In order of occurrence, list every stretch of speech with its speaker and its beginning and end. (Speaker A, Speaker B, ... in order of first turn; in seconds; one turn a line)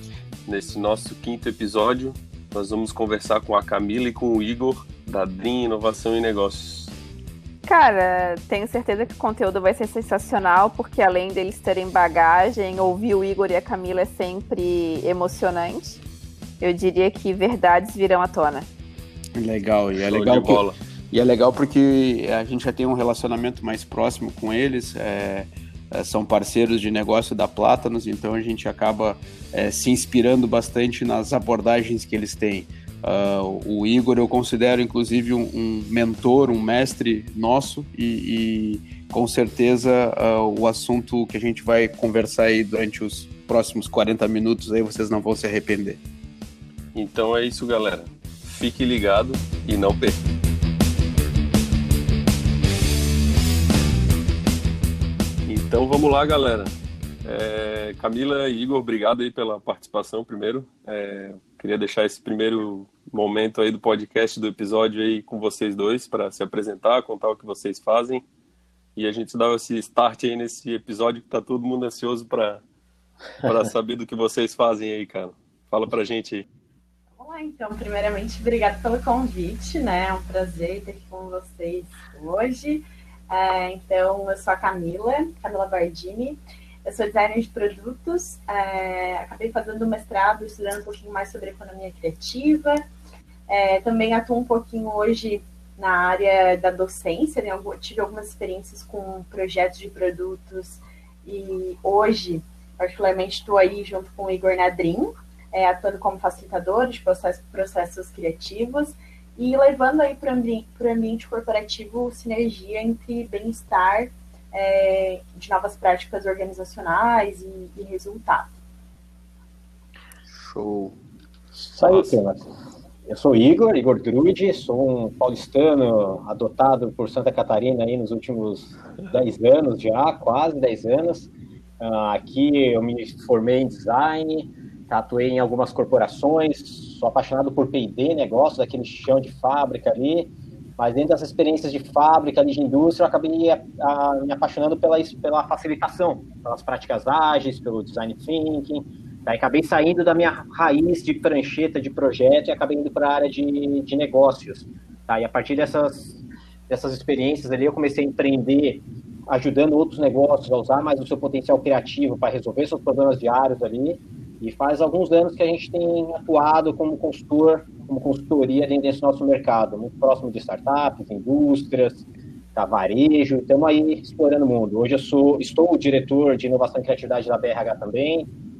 Speaker A: 0.5-6.9
Speaker B: 7.7-16.0
Speaker B: 16.6-18.7
Speaker C: 19.4-46.0
Speaker A: 20.0-20.8
Speaker A: 46.9-50.2
Speaker A: 55.5-56.7
Speaker A: 57.2-68.2
Speaker A: 69.0-72.6
Speaker A: 73.4-76.4
Speaker D: 77.2-92.8
Speaker D: 93.5-118.5
Speaker C: 120.3-121.0
Speaker E: 121.7-122.4
Speaker E: 123.1-178.3